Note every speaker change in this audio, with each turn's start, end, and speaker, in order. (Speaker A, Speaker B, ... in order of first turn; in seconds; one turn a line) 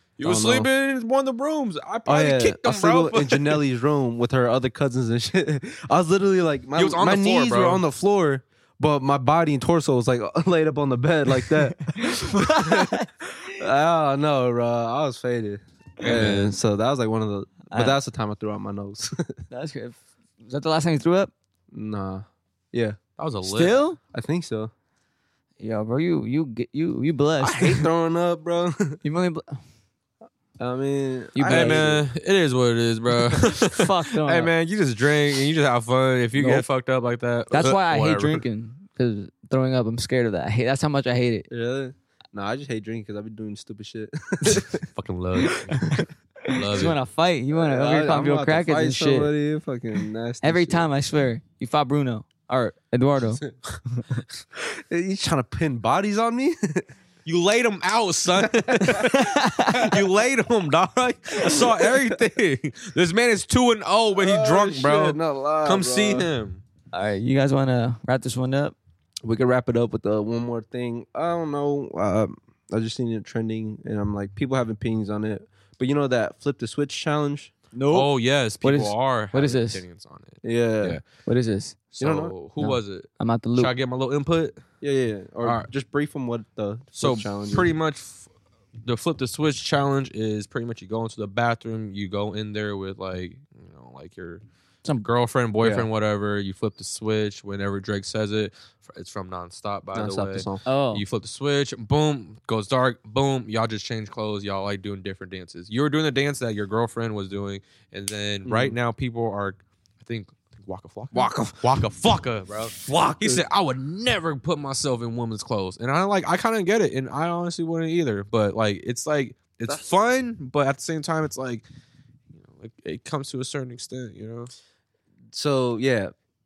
Speaker A: 0.2-3.6
Speaker B: 0.2-0.7
Speaker B: 2.1-19.4
Speaker A: 6.8-7.8
Speaker C: 11.9-13.1
Speaker A: 16.0-16.6
Speaker C: 19.5-21.3
Speaker B: 21.7-23.0
Speaker A: 23.2-23.8
Speaker C: 23.4-24.0
Speaker B: 24.1-24.7
Speaker C: 25.6-27.9
Speaker B: 27.4-29.0
Speaker C: 29.0-29.5
Speaker B: 30.6-32.0
Speaker C: 31.4-31.9
Speaker A: 31.4-38.4
Speaker C: 33.5-34.5
Speaker C: 36.4-36.6
Speaker C: 37.5-41.5
Speaker B: 41.5-44.9
Speaker A: 44.9-47.0
Speaker C: 45.5-49.3
Speaker B: 47.5-50.9
Speaker C: 50.4-53.4
Speaker B: 54.6-56.9
Speaker A: 57.2-66.6
Speaker B: 58.4-59.0
Speaker C: 59.0-59.9
Speaker B: 64.2-66.3
Speaker C: 66.9-68.8
Speaker B: 69.2-77.5
Speaker C: 77.7-79.8
Speaker A: 77.9-81.0
Speaker B: 80.4-81.0
Speaker C: 81.2-81.8
Speaker A: 82.0-84.6
Speaker B: 82.0-82.3
Speaker C: 82.6-83.7
Speaker B: 84.8-87.7
Speaker A: 85.4-85.7
Speaker A: 87.0-88.3
Speaker A: 88.8-94.4
Speaker A: 95.0-121.7
Speaker B: 95.6-95.9
Speaker B: 99.9-100.6
Speaker C: 100.7-101.0
Speaker B: 108.5-108.8
Speaker B: 111.1-111.8
Speaker B: 112.8-113.4
Speaker A: 122.3-124.5
Speaker B: 125.3-126.1